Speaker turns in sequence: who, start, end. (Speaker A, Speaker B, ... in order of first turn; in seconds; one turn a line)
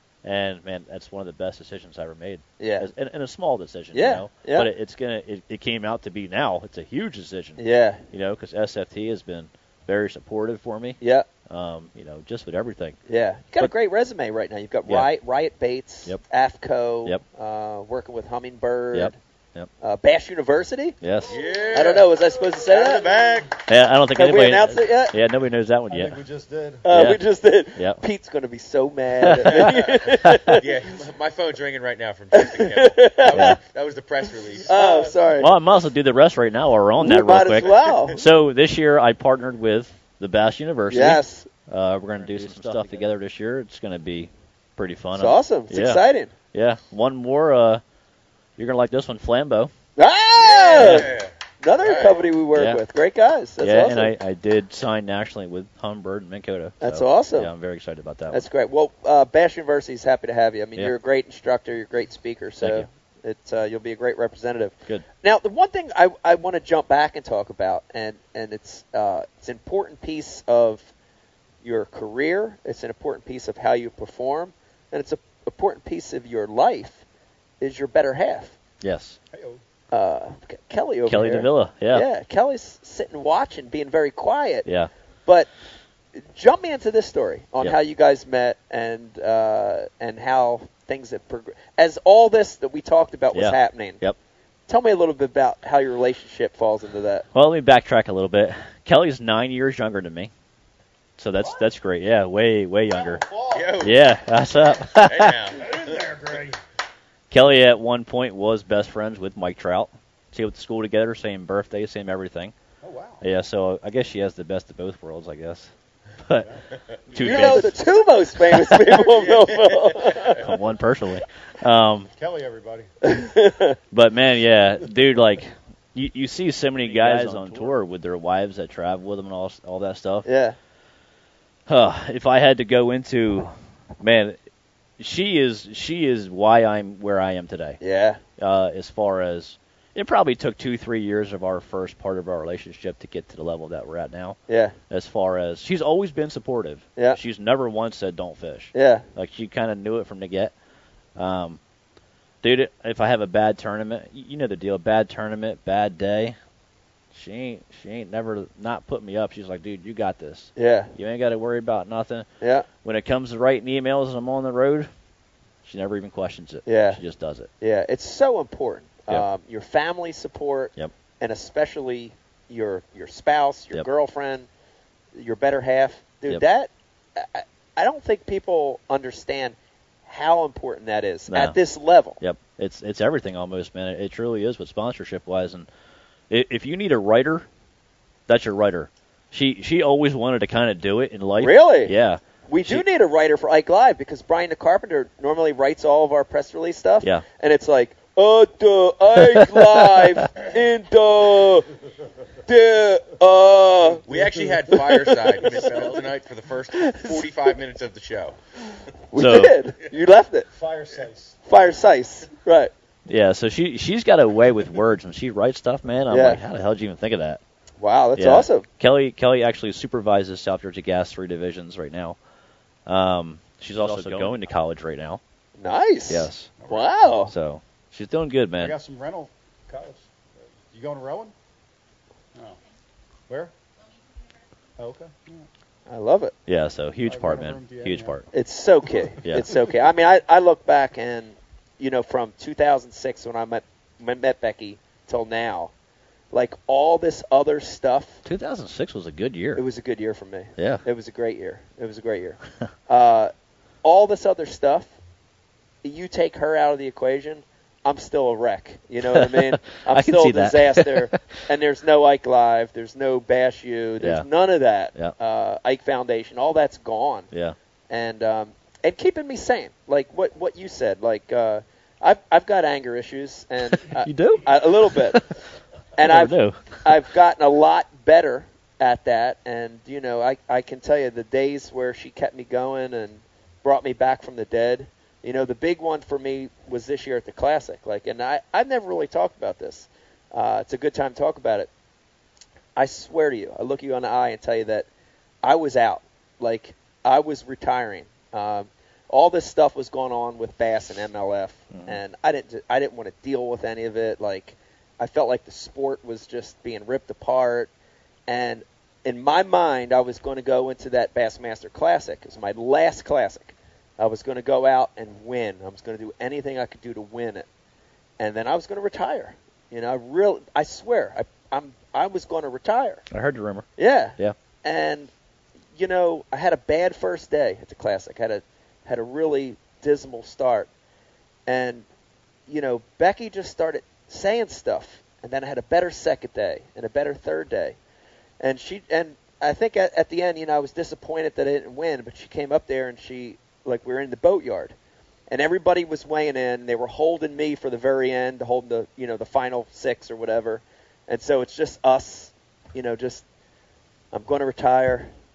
Speaker A: 0.2-13.0
Speaker B: 2.6-2.9
Speaker B: 3.9-4.7
Speaker B: 7.6-8.0
Speaker B: 11.0-11.3
Speaker B: 13.1-19.2
Speaker A: 18.9-19.7
Speaker B: 19.8-21.0
Speaker A: 21.0-21.4
Speaker C: 21.3-23.6
Speaker B: 21.7-23.1
Speaker A: 23.7-26.2
Speaker B: 24.1-25.1
Speaker D: 25.9-26.9
Speaker B: 26.8-30.6
Speaker A: 26.9-27.2
Speaker A: 27.8-28.0
Speaker A: 29.2-29.7
Speaker C: 29.6-29.9
Speaker A: 30.2-30.6
Speaker C: 30.5-35.0
Speaker B: 32.3-33.6
Speaker A: 33.3-33.6
Speaker D: 34.6-35.1
Speaker B: 34.7-35.5
Speaker A: 35.4-47.8
Speaker B: 37.0-38.2
Speaker B: 40.9-41.5
Speaker D: 42.2-43.0
Speaker B: 45.2-46.3
Speaker A: 48.6-49.7
Speaker B: 50.0-54.1
Speaker C: 50.3-52.3
Speaker A: 50.8-51.1
Speaker A: 52.5-52.8
Speaker A: 53.6-58.5
Speaker B: 56.8-57.5
Speaker B: 58.3-70.9
Speaker A: 62.6-62.9
Speaker B: 71.6-77.0
Speaker B: 77.6-78.6
Speaker A: 78.8-79.2
Speaker D: 79.3-79.6
Speaker B: 79.9-84.7
Speaker A: 81.1-82.1
Speaker A: 84.7-84.9
Speaker B: 86.2-94.0
Speaker A: 93.3-94.2
Speaker B: 94.7-97.3
Speaker A: 97.3-100.3
Speaker A: 101.2-103.2
Speaker D: 101.4-101.7
Speaker D: 102.9-103.9
Speaker C: 103.5-104.0
Speaker A: 103.8-105.5
Speaker C: 104.9-106.0
Speaker D: 105.6-106.6
Speaker A: 107.3-112.5
Speaker D: 112.8-113.2
Speaker A: 113.2-116.5
Speaker D: 116.4-116.7
Speaker A: 117.1-117.8
Speaker B: 117.2-120.4
Speaker D: 117.2-117.7
Speaker C: 119.1-120.3
Speaker A: 120.4-122.1
Speaker D: 122.2-122.9
Speaker B: 123.0-123.8
Speaker A: 123.9-130.3
Speaker D: 126.8-127.7
Speaker B: 130.2-130.6
Speaker A: 131.7-134.4
Speaker A: 135.0-137.8
Speaker B: 137.8-138.2
Speaker A: 138.4-144.4
Speaker B: 144.5-144.8
Speaker A: 144.9-150.5
Speaker B: 148.7-149.1
Speaker A: 151.2-151.6
Speaker A: 152.4-156.4
Speaker A: 157.1-162.3
Speaker B: 160.6-160.9
Speaker B: 162.4-162.7
Speaker A: 162.8-164.9
Speaker A: 165.6-167.5
Speaker B: 166.7-167.0
Speaker B: 167.6-174.5
Speaker B: 175.1-182.2
Speaker A: 181.3-181.6
Speaker A: 182.2-185.7
Speaker A: 186.3-187.5
Speaker A: 188.3-192.9
Speaker B: 191.4-191.9
Speaker B: 192.5-201.7
Speaker A: 199.2-200.2
Speaker B: 202.5-204.0
Speaker C: 204.1-208.4
Speaker D: 204.1-204.8
Speaker D: 205.4-206.0
Speaker B: 209.1-210.5
Speaker A: 209.2-209.6
Speaker D: 210.5-211.8
Speaker B: 211.5-212.7
Speaker A: 213.1-217.4
Speaker B: 216.1-216.4
Speaker B: 217.8-218.7
Speaker A: 218.2-222.2
Speaker A: 222.9-225.2
Speaker D: 223.8-224.4
Speaker B: 225.6-227.3
Speaker A: 226.1-226.5
Speaker D: 226.6-227.1
Speaker A: 227.3-228.8
Speaker D: 228.6-231.3
Speaker D: 232.3-232.6
Speaker D: 234.8-235.5
Speaker B: 235.9-236.3
Speaker A: 236.5-238.3
Speaker D: 237.1-238.2
Speaker B: 238.3-245.7
Speaker D: 238.9-239.6
Speaker A: 239.2-239.5
Speaker B: 246.3-248.2
Speaker A: 248.2-249.6
Speaker B: 249.6-253.3
Speaker A: 250.6-250.8
Speaker B: 253.8-254.9
Speaker B: 255.8-267.3
Speaker A: 259.1-261.4
Speaker A: 264.0-264.3
Speaker A: 267.3-267.6
Speaker B: 267.9-275.2
Speaker A: 273.7-275.3
Speaker B: 276.0-291.7
Speaker A: 276.0-277.1
Speaker B: 292.8-294.9
Speaker B: 295.4-307.7
Speaker A: 301.7-302.0
Speaker B: 308.3-317.5
Speaker B: 318.2-323.0
Speaker A: 323.1-324.4
Speaker B: 323.8-325.1
Speaker B: 325.8-330.7
Speaker B: 331.5-331.9
Speaker B: 332.5-337.8
Speaker B: 338.4-344.8
Speaker B: 345.3-353.2
Speaker B: 354.1-355.1